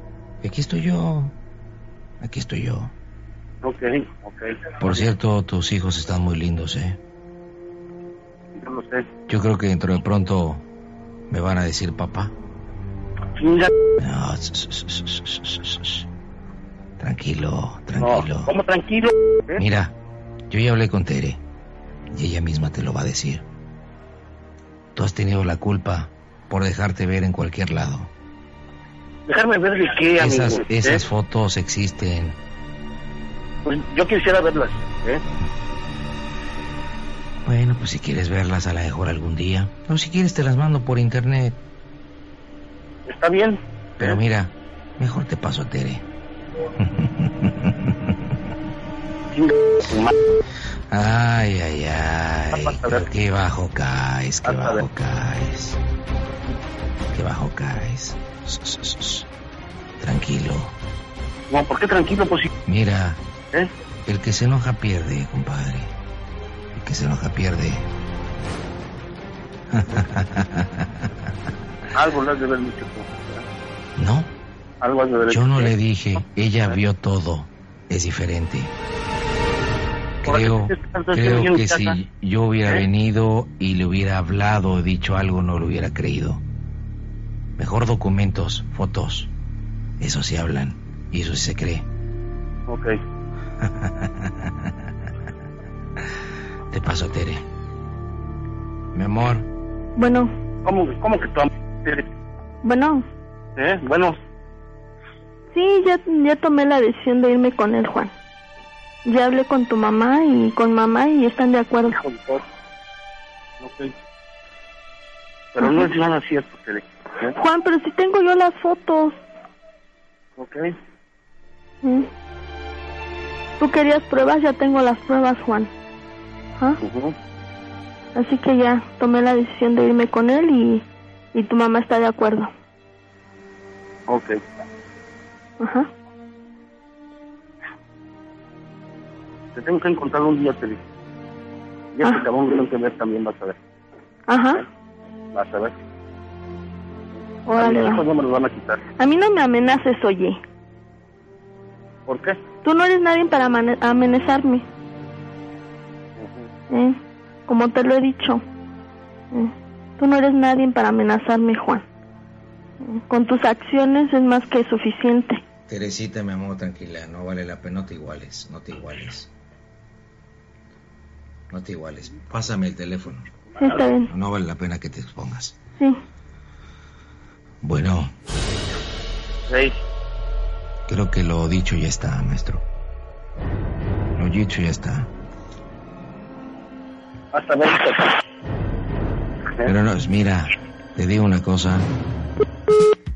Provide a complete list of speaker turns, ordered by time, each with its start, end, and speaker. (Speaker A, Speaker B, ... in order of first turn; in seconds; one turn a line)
Speaker A: 0.4-1.4
Speaker A: 2.2-2.9
Speaker B: 3.6-5.1
Speaker A: 4.8-7.0
Speaker B: 8.6-9.1
Speaker A: 9.3-10.6
Speaker A: 11.3-12.3
Speaker B: 13.4-13.7
Speaker A: 14.0-16.1
Speaker A: 17.0-18.5
Speaker B: 18.0-19.6
Speaker A: 19.6-19.9
Speaker A: 20.5-21.4
Speaker A: 22.1-23.4
Speaker A: 24.9-28.1
Speaker B: 29.3-31.0
Speaker A: 30.2-32.4
Speaker B: 33.6-35.2
Speaker A: 37.5-41.6
Speaker B: 43.1-44.2
Speaker A: 44.0-46.0
Speaker A: 46.8-48.2
Speaker B: 49.3-50.1
Speaker A: 50.9-55.8
Speaker B: 52.5-53.0
Speaker B: 54.5-54.8
Speaker A: 57.1-59.3
Speaker A: 60.0-60.7
Speaker B: 61.5-62.5
Speaker A: 62.7-63.2
Speaker A: 64.1-65.9
Speaker A: 66.7-67.9
Speaker A: 69.7-71.1
Speaker B: 71.9-73.5
Speaker A: 74.0-74.3
Speaker B: 74.8-75.7
Speaker A: 75.3-78.7
Speaker A: 80.2-86.4
Speaker B: 80.3-82.0
Speaker A: 87.6-89.3
Speaker A: 90.0-91.9
Speaker B: 92.7-93.0
Speaker A: 93.6-94.7
Speaker A: 96.7-97.4
Speaker A: 98.9-99.5
Speaker C: 100.0-100.3
Speaker B: 100.7-102.1
Speaker C: 102.6-103.1
Speaker B: 103.6-104.2
Speaker C: 105.5-108.1
Speaker C: 109.0-112.0
Speaker B: 111.9-112.4
Speaker B: 113.6-114.0
Speaker B: 115.5-117.3
Speaker C: 115.6-115.9
Speaker C: 117.3-119.2
Speaker B: 120.4-120.7
Speaker C: 121.8-122.1
Speaker C: 123.6-125.7
Speaker B: 126.8-127.2
Speaker C: 128.2-132.5
Speaker B: 134.1-134.4
Speaker C: 135.6-135.9
Speaker B: 139.6-140.8
Speaker B: 141.9-143.6
Speaker C: 144.3-144.6
Speaker B: 145.3-145.8
Speaker C: 147.5-148.0
Speaker B: 147.6-148.8
Speaker C: 149.0-150.4
Speaker B: 152.1-152.4
Speaker C: 152.6-154.7
Speaker B: 156.2-156.5
Speaker C: 156.7-158.4
Speaker C: 159.3-161.9
Speaker C: 162.8-165.4
Speaker A: 165.7-169.3
Speaker A: 171.5-173.3
Speaker C: 173.6-174.1
Speaker A: 174.1-175.6
Speaker A: 177.6-178.1
Speaker B: 179.5-179.8
Speaker A: 180.9-182.6
Speaker A: 184.2-185.1
Speaker B: 187.3-188.2
Speaker A: 189.6-191.9